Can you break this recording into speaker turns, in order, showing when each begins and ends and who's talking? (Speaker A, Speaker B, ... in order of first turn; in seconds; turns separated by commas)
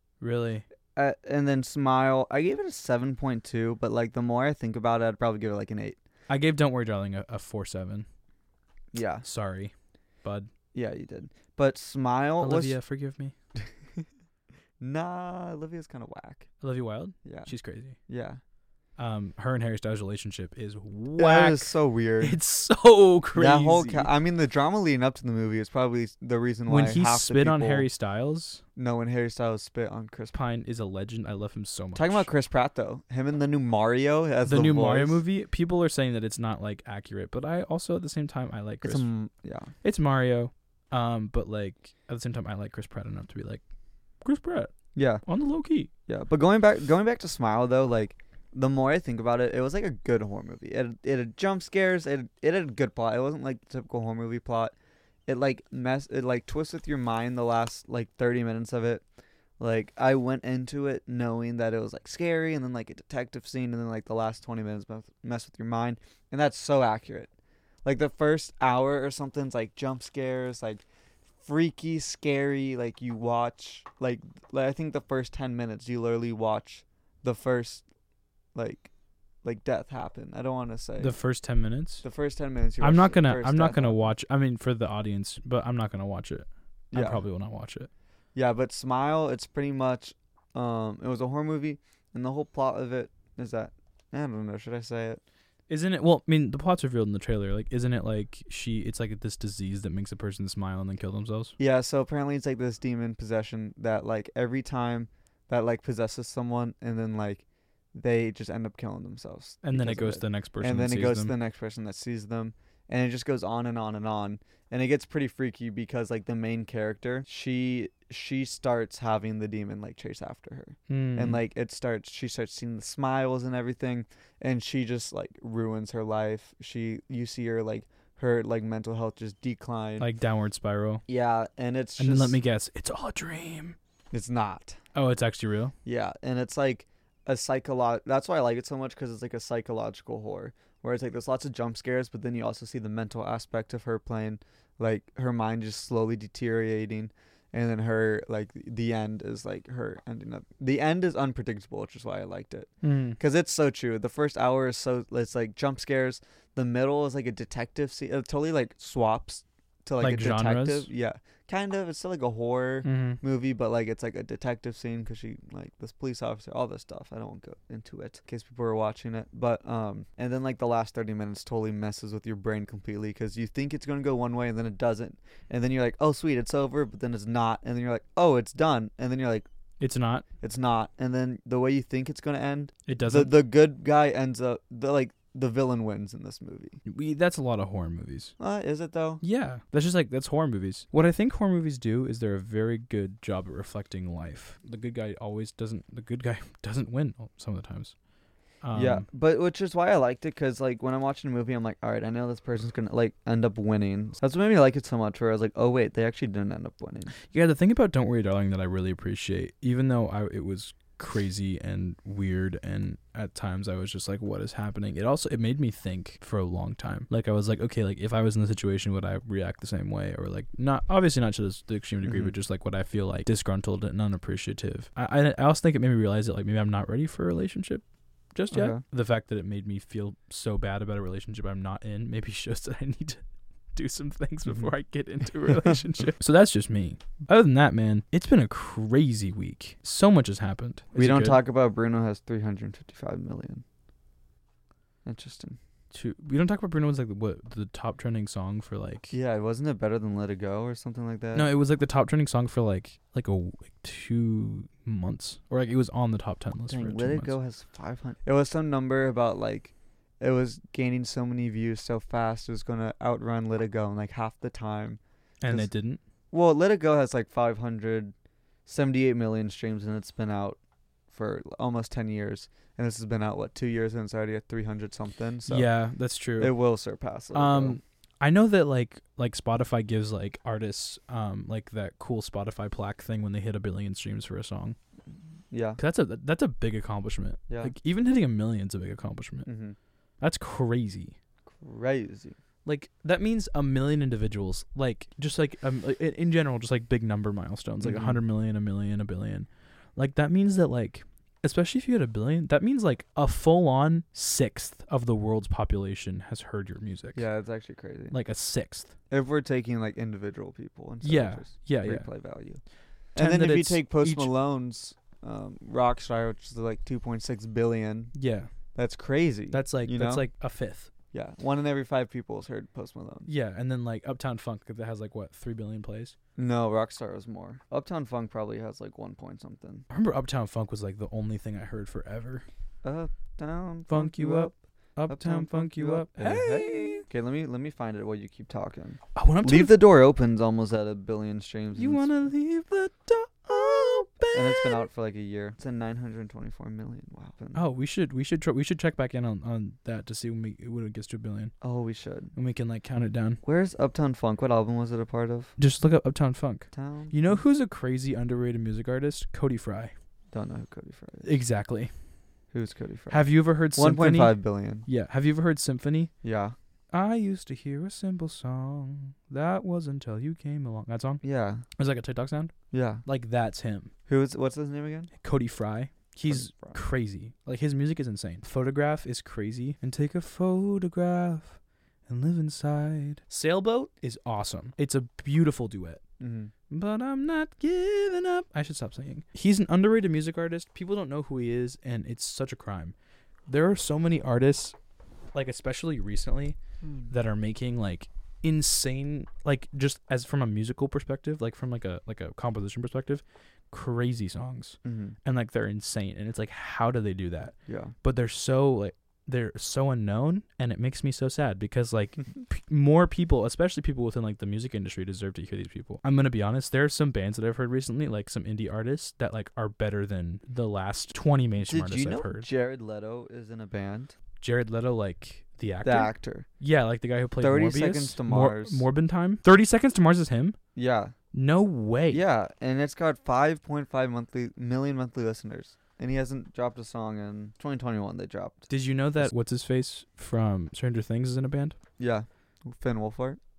Speaker A: 0.2-0.7, Speaker B: 1.0-6.0, Speaker A: 6.3-8.1, Speaker B: 8.9-9.2, Speaker A: 9.2-9.7, Speaker A: 10.2-10.5, Speaker B: 10.7-12.8, Speaker A: 12.4-13.3, Speaker B: 13.6-14.1, Speaker B: 14.8-16.5, Speaker A: 16.6-18.0, Speaker B: 17.2-17.5, Speaker B: 18.1-18.4, Speaker A: 19.0-24.1, Speaker B: 21.2-22.4, Speaker B: 23.4-27.9, Speaker A: 26.7-28.6, Speaker B: 28.8-30.4, Speaker A: 30.3-32.3, Speaker B: 31.9-35.2, Speaker A: 34.5-39.1, Speaker B: 38.8-39.7, Speaker A: 39.8-43.6, Speaker A: 44.2-44.7, Speaker B: 45.0-45.2, Speaker A: 45.3-45.9, Speaker B: 46.1-54.7, Speaker B: 55.3-59.0, Speaker B: 59.6-67.3, Speaker B: 67.8-70.8, Speaker B: 71.4-77.8, Speaker B: 78.5-78.9, Speaker B: 79.4-81.1, Speaker A: 81.0-82.0, Speaker B: 82.0-84.0, Speaker A: 82.8-87.9, Speaker B: 86.9-87.2, Speaker B: 88.3-95.2, Speaker A: 95.7-101.5, Speaker B: 101.6-130.1, Speaker A: 109.6-111.3, Speaker A: 120.9-121.4, Speaker A: 130.0-131.0, Speaker B: 131.1-132.4, Speaker A: 132.0-133.8, Speaker B: 134.1-134.8, Speaker A: 134.9-135.8, Speaker B: 135.8-179.5, Speaker A: 152.8-153.2, Speaker A: 160.0-160.9, Speaker A: 162.8-163.2, Speaker A: 179.8-180.2, Speaker B: 180.4-186.8, Speaker A: 182.9-183.3, Speaker A: 186.8-188.3, Speaker B: 188.4-189.2, Speaker A: 189.2-197.9, Speaker A: 198.6-199.1, Speaker B: 198.7-207.1, Speaker A: 207.2-233.2, Speaker B: 222.1-222.3, Speaker B: 228.5-228.8, Speaker A: 233.8-241.4, Speaker B: 234.5-234.7, Speaker B: 235.5-235.8, Speaker B: 240.9-243.6, Speaker B: 245.1-245.6, Speaker A: 245.9-249.1, Speaker B: 249.1-251.5, Speaker A: 251.3-257.4, Speaker B: 256.7-265.7, Speaker A: 265.4-266.0, Speaker B: 266.3-268.1, Speaker B: 268.7-270.6, Speaker B: 271.1-275.7, Speaker A: 275.5-276.5, Speaker B: 276.4-277.8, Speaker A: 277.3-284.8, Speaker B: 285.5-285.8, Speaker A: 285.8-289.5, Speaker B: 289.5-289.8, Speaker A: 290.2-291.2, Speaker B: 291.5-292.4, Speaker A: 292.6-307.2, Speaker B: 297.8-298.2, Speaker B: 307.1-308.2, Speaker A: 308.1-308.9, Speaker B: 309.1-312.6, Speaker A: 311.0-312.1, Speaker B: 313.1-318.1, Speaker A: 313.2-314.3, Speaker A: 318.1-318.5, Speaker B: 318.8-320.3, Speaker A: 319.5-320.9, Speaker B: 321.1-323.3, Speaker A: 323.3-326.2, Speaker B: 326.4-329.9, Speaker A: 329.9-332.4, Speaker B: 332.8-334.6, Speaker A: 333.9-337.1, Speaker B: 335.1-342.1, Speaker A: 339.2-339.8, Speaker A: 341.8-344.9, Speaker B: 344.3-347.6, Speaker A: 347.6-351.5, Speaker B: 351.6-352.3, Speaker A: 352.4-353.4, Speaker B: 353.4-355.5, Speaker A: 355.6-359.9, Speaker B: 356.7-357.4, Speaker B: 360.3-361.3, Speaker A: 361.2-361.9, Speaker B: 362.5-364.9, Speaker A: 363.1-366.1, Speaker B: 366.2-366.6, Speaker A: 366.9-371.2, Speaker B: 371.2-371.6, Speaker A: 371.8-372.5, Speaker B: 372.7-373.0, Speaker A: 373.1-373.9, Speaker B: 374.1-375.1, Speaker A: 375.2-386.0, Speaker B: 376.3-376.8, Speaker B: 386.2-386.5, Speaker A: 386.7-392.9, Speaker A: 393.5-394.8, Speaker A: 395.3-422.5, Speaker B: 404.9-405.2, Speaker B: 407.7-407.9, Speaker B: 421.7-424.1, Speaker A: 424.4-430.6, Speaker B: 425.8-426.5, Speaker B: 427.4-428.9, Speaker B: 430.8-431.1, Speaker A: 431.3-432.2, Speaker B: 432.1-439.3, Speaker A: 438.7-441.8, Speaker B: 442.0-443.4